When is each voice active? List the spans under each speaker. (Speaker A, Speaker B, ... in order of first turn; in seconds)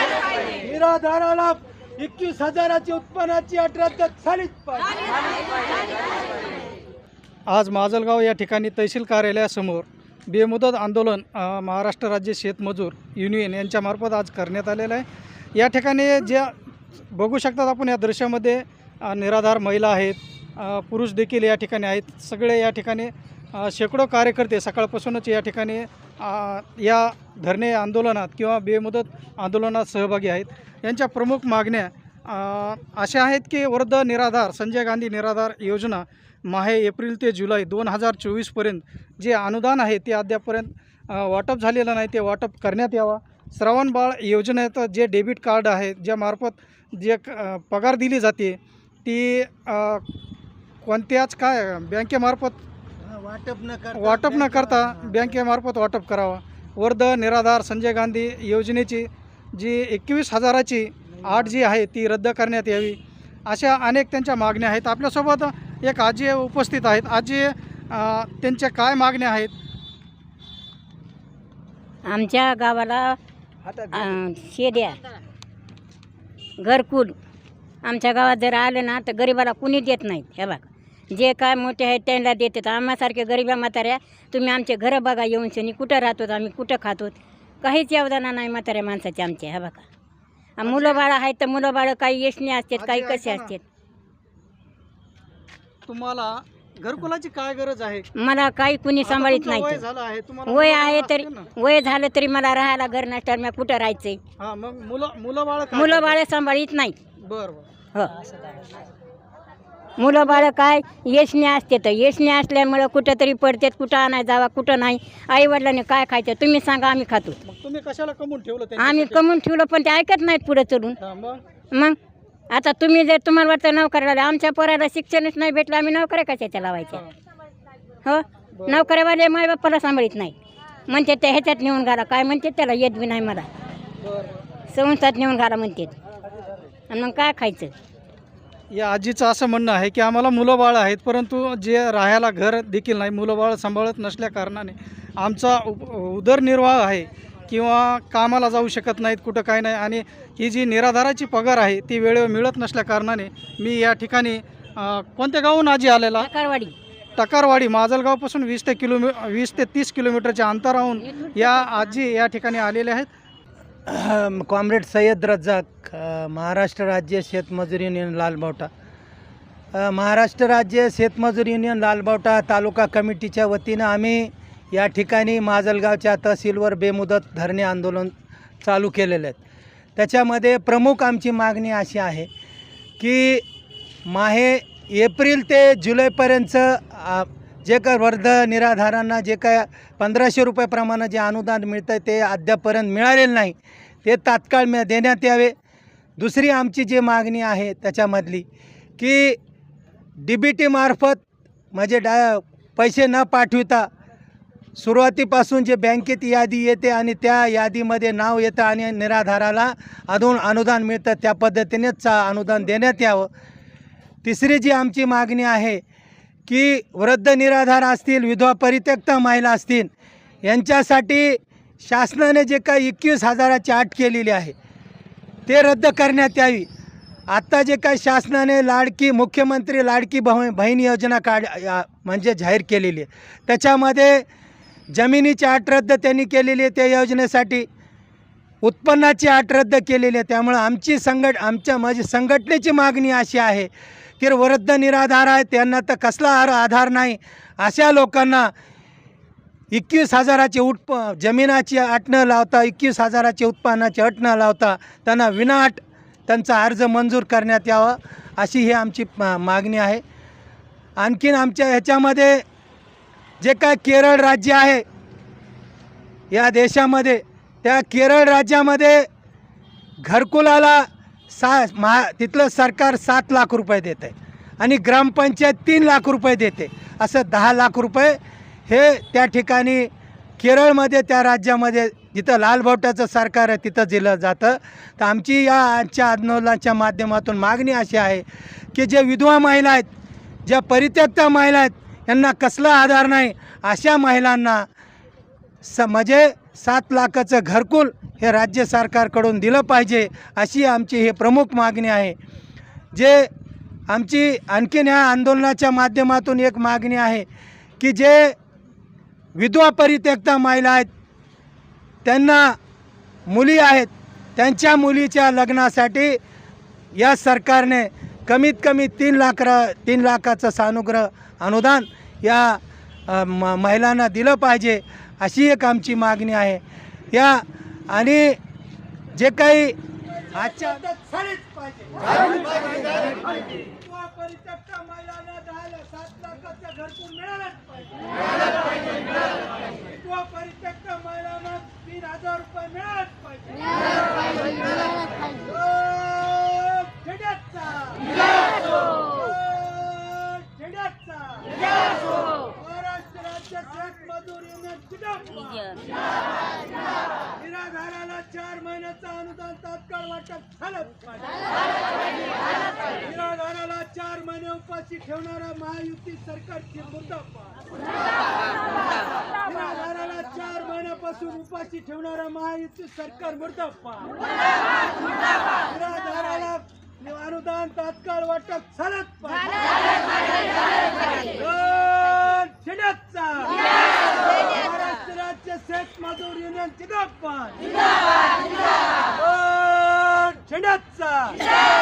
Speaker A: 0.6-5.0, 53.0-55.4, 61.1-61.5, 163.9-168.7, 169.7-179.4, 180.0-182.3, 183.0-183.4, 184.1-195.5, 196.2-198.4, 199.0-199.4, 200.2-203.9, 204.8-213.3, 214.2-215.8, 216.5-219.9, 220.4-224.5, 225.5-226.7, 227.3-234.2, 234.9-237.7, 238.6-248.5, 249.7-260.0, 261.0-262.4, 263.4-264.8, 266.3-269.1, 270.0-289.9, 290.5-294.7, 295.6-302.1, 302.9-303.3, 303.9-307.3, 307.8-308.4, 309.4-310.9, 312.1-312.6, 313.3-316.2, 316.9-328.4, 329.1-339.1, 339.8-355.8, 357.4-361.6, 362.9-367.7, 369.4-374.2, 375.6-379.8, 381.1-387.7, 389.0-391.5
Speaker B: 7.5-16.6, 17.1-50.0, 50.8-52.6, 54.0-69.5, 90.6-91.1, 92.8-93.5, 95.9-98.1, 99.0-101.5, 104.4-106.2, 107.2-107.7, 108.2-108.7, 110.0-110.5, 117.4-119.2, 121.0-121.4, 128.5-128.9, 134.0-134.4, 138.7-156.3, 157.2-163.1
Speaker C: 72.1-73.2, 73.9-75.0, 76.6-77.1, 77.8-89.8, 90.6-93.6, 98.2-99.8, 100.5-104.2, 105.7-107.0, 110.0-117.4, 118.8-121.0, 122.5-127.0, 128.1-130.3, 130.9-133.5, 134.7-136.0, 136.9-137.7, 156.2-156.8, 161.0-162.1